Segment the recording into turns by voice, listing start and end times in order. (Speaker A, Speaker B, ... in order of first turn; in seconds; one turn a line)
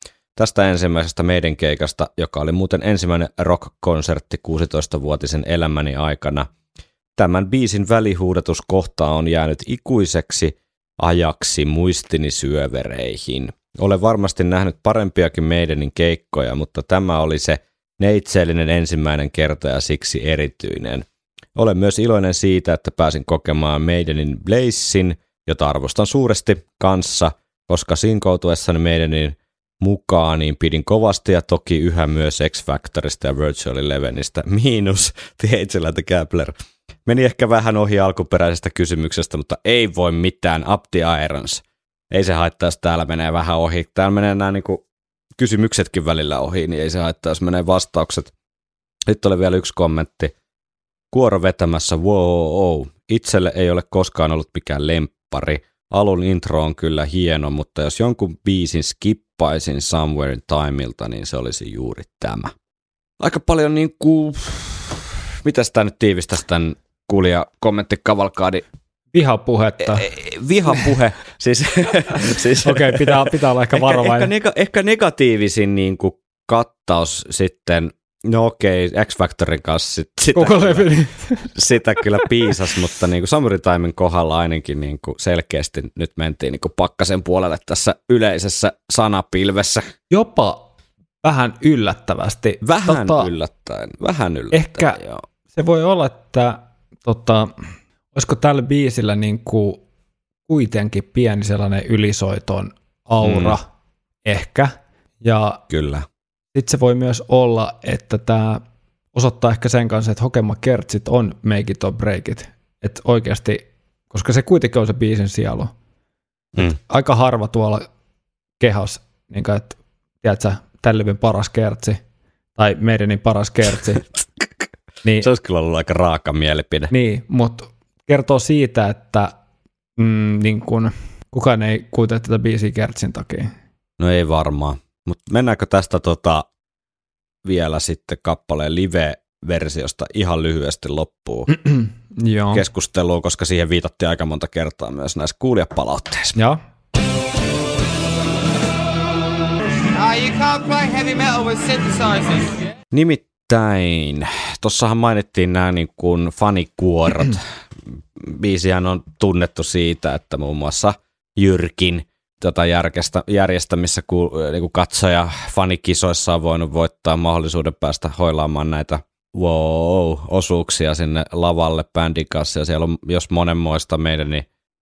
Speaker A: 0.4-6.5
Speaker A: 7.2-36.5
Speaker A: 37.0-44.8
Speaker A: 45.4-48.3
Speaker A: 49.1-50.3
Speaker A: 51.1-62.5
Speaker A: 63.2-68.7
Speaker B: 69.1-70.1
Speaker A: 69.8-80.9
Speaker B: 72.6-74.3
Speaker B: 80.3-81.5
Speaker A: 81.5-89.9
Speaker B: 90.1-90.7
Speaker B: 91.2-93.3
Speaker A: 92.6-95.2
Speaker B: 94.5-95.0
Speaker B: 95.5-97.5
Speaker B: 98.1-99.8
Speaker B: 100.5-103.6
Speaker A: 103.2-103.6
Speaker B: 104.2-105.6
Speaker A: 105.7-106.1
Speaker B: 106.5-108.6
Speaker B: 109.1-115.7
Speaker B: 116.6-117.9
Speaker B: 118.6-122.0
Speaker B: 122.6-124.0
Speaker A: 125.2-126.9
Speaker B: 126.9-129.3
Speaker B: 130.0-133.5
Speaker A: 134.0-136.5
Speaker A: 137.4-141.5
Speaker B: 141.5-142.6
Speaker A: 142.5-146.4
Speaker B: 146.3-146.6
Speaker C: 149.9-152.6
Speaker A: 152.9-174.5